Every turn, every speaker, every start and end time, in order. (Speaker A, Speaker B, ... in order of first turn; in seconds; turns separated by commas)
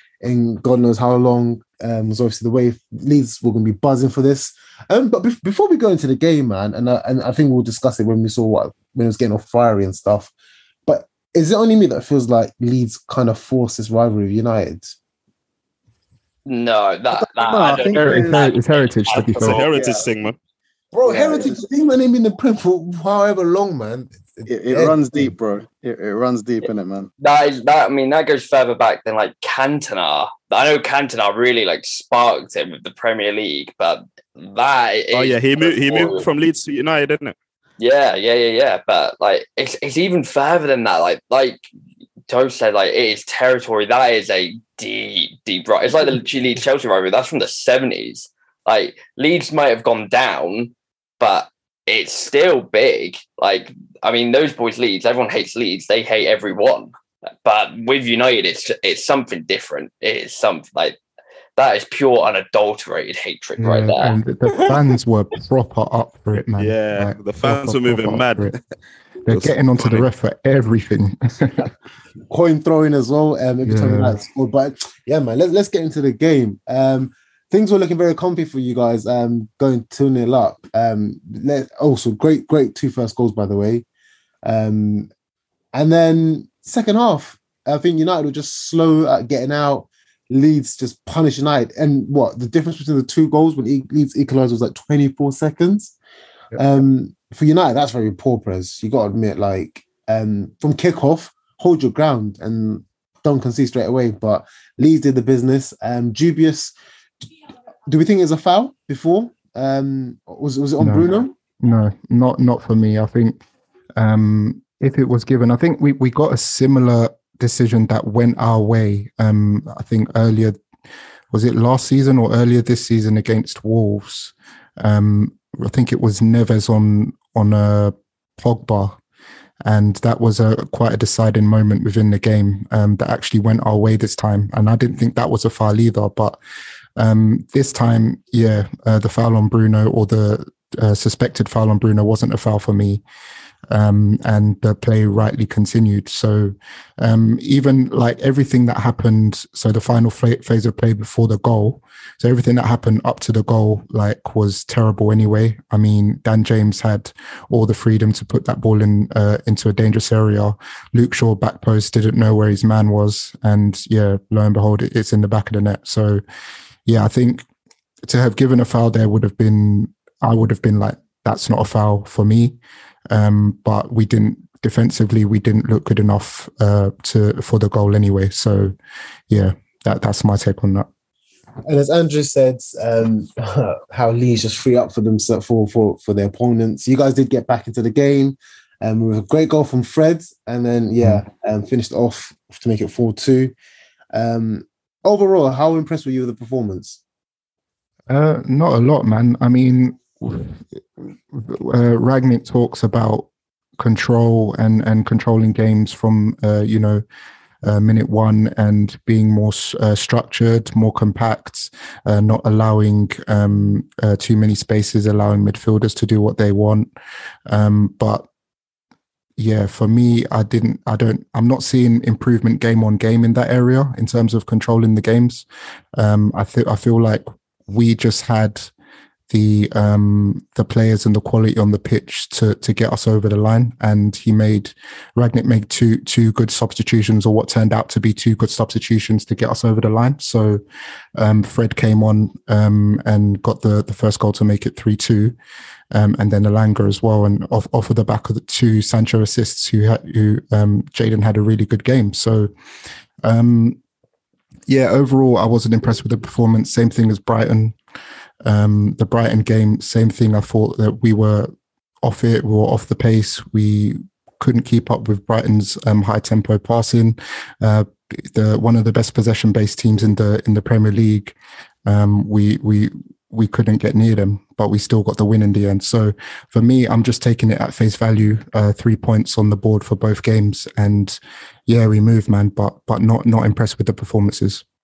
Speaker A: 0.2-10.3, Speaker A: 10.9-14.9, Speaker B: 16.4-19.6, Speaker C: 17.1-18.5, Speaker D: 18.0-19.6, Speaker E: 19.4-20.4, Speaker C: 19.4-20.1, Speaker A: 20.9-25.3, Speaker C: 21.0-21.6, Speaker C: 24.4-27.1, Speaker B: 27.2-36.3, Speaker E: 35.1-37.3, Speaker B: 37.8-41.7, Speaker B: 42.3-56.9, Speaker B: 57.4-61.0, Speaker B: 61.6-64.2, Speaker D: 63.6-68.5, Speaker E: 66.6-68.6, Speaker D: 69.3-71.6, Speaker E: 69.3-70.0, Speaker A: 72.3-83.8, Speaker D: 73.6-74.2, Speaker A: 84.5-85.1, Speaker A: 85.8-95.9, Speaker A: 96.5-106.7, Speaker A: 107.9-111.3, Speaker D: 110.8-111.1, Speaker D: 111.6-113.4, Speaker D: 114.0-120.6, Speaker D: 121.3-129.0, Speaker D: 129.6-136.4, Speaker D: 137.0-143.0, Speaker D: 143.7-166.2, Speaker D: 166.8-167.4, Speaker D: 168.0-172.6, Speaker D: 173.1-178.7, Speaker D: 179.3-180.9, Speaker A: 181.7-193.5, Speaker A: 194.1-197.0, Speaker D: 198.1-200.6, Speaker D: 201.3-203.3, Speaker D: 203.8-207.0, Speaker D: 207.6-216.9, Speaker D: 217.5-218.2, Speaker D: 219.4-225.4, Speaker D: 226.0-228.7, Speaker D: 229.3-240.6, Speaker D: 241.2-245.3, Speaker D: 245.9-252.5, Speaker D: 253.2-253.8, Speaker D: 254.7-257.8, Speaker D: 258.4-261.5, Speaker D: 262.0-271.3, Speaker D: 271.9-284.6